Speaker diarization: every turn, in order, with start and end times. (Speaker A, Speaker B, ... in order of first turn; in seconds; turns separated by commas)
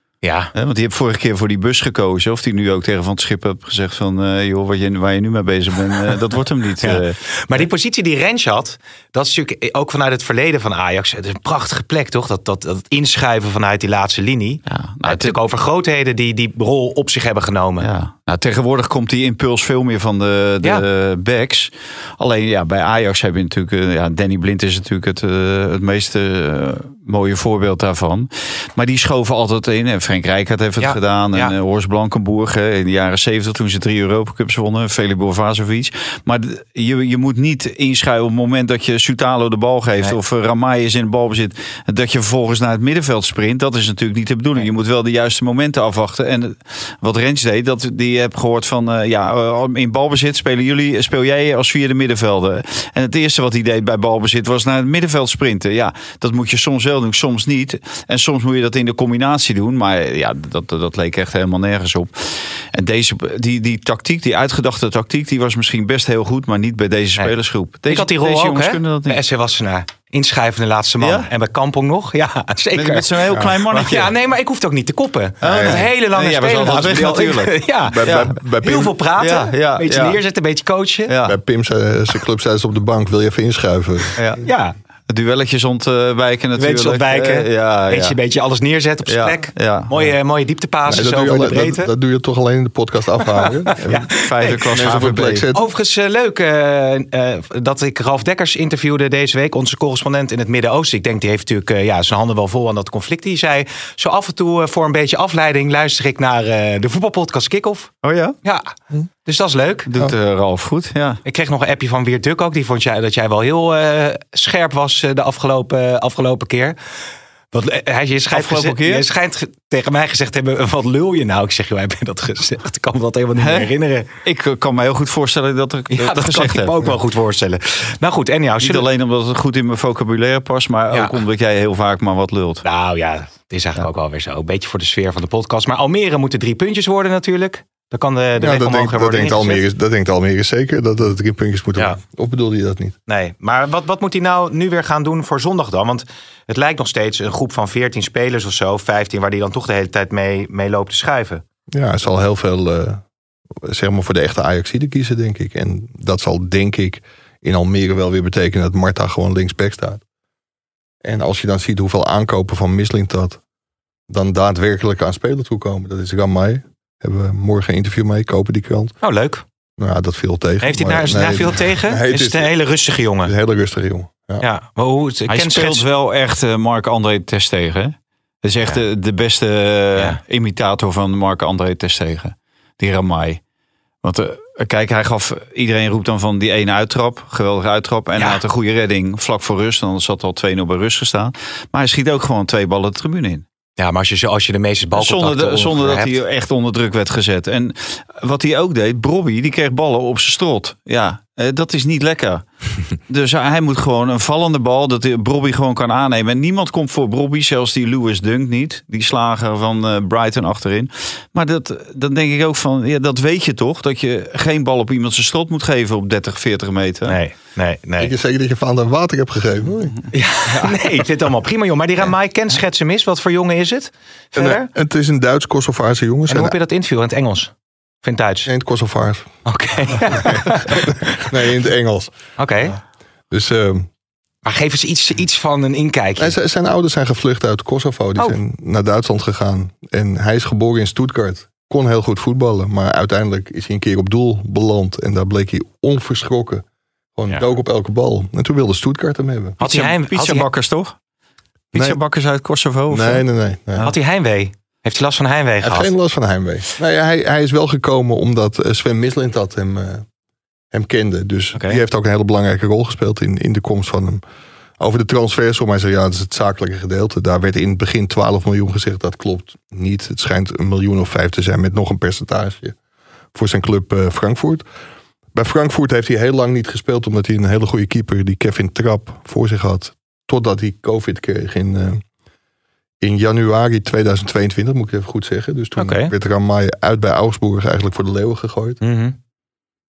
Speaker A: 0.2-0.5, Speaker B: 0.5-7.6, Speaker A: 6.8-17.9, Speaker B: 14.7-15.4, Speaker B: 17.8-69.2, Speaker A: 30.8-31.5, Speaker A: 67.9-81.1, Speaker B: 71.0-71.3, Speaker B: 72.7-74.1, Speaker B: 75.4-78.3, Speaker C: 75.4-75.8, Speaker C: 77.8-78.9, Speaker B: 79.2-80.2, Speaker B: 81.1-81.4, Speaker C: 81.2-84.4, Speaker B: 84.2-84.4, Speaker A: 84.4-84.7, Speaker B: 85.1-88.2, Speaker A: 86.6-91.9, Speaker B: 89.0-89.9, Speaker C: 90.8-94.1, Speaker A: 93.7-94.6, Speaker B: 94.2-95.5, Speaker C: 94.7-95.7, Speaker A: 95.5-107.9, Speaker B: 108.0-108.3, Speaker A: 108.4-108.7, Speaker A: 109.2-109.9, Speaker B: 109.9-111.2, Speaker A: 111.2-116.8, Speaker A: 117.5-124.1, Speaker B: 118.3-119.0, Speaker B: 123.4-123.7, Speaker B: 124.2-126.8, Speaker A: 125.9-128.8, Speaker B: 128.6-132.6, Speaker A: 130.9-131.2, Speaker A: 132.6-139.6, Speaker C: 138.4-142.9, Speaker A: 143.1-151.4, Speaker C: 151.7-153.0, Speaker C: 153.6-160.0, Speaker C: 161.0-163.4, Speaker C: 164.1-168.9, Speaker A: 169.0-169.4, Speaker C: 169.8-172.5, Speaker A: 170.6-173.3, Speaker C: 173.2-174.4, Speaker A: 174.4-175.8, Speaker B: 175.3-183.4, Speaker B: 184.0-193.4, Speaker A: 193.8-196.2, Speaker B: 194.9-217.2, Speaker A: 217.1-218.1, Speaker C: 218.0-220.0, Speaker A: 220.1-224.7, Speaker C: 224.3-226.5, Speaker A: 226.3-227.5, Speaker A: 228.0-228.5, Speaker C: 228.4-229.3, Speaker A: 229.4-231.2, Speaker C: 230.0-232.2, Speaker A: 232.4-232.8, Speaker C: 233.3-233.9, Speaker A: 234.4-236.3, Speaker C: 236.2-246.6, Speaker C: 247.2-249.6, Speaker A: 249.6-250.5, Speaker B: 249.6-250.9, Speaker B: 251.7-253.9, Speaker C: 251.7-252.0, Speaker C: 252.9-253.9, Speaker A: 253.8-255.9, Speaker C: 255.6-260.0, Speaker C: 260.7-264.2, Speaker A: 261.5-261.8, Speaker C: 264.8-272.8, Speaker C: 273.3-274.6, Speaker C: 275.3-282.0, Speaker C: 283.0-288.8, Speaker A: 285.8-286.1, Speaker A: 288.8-289.1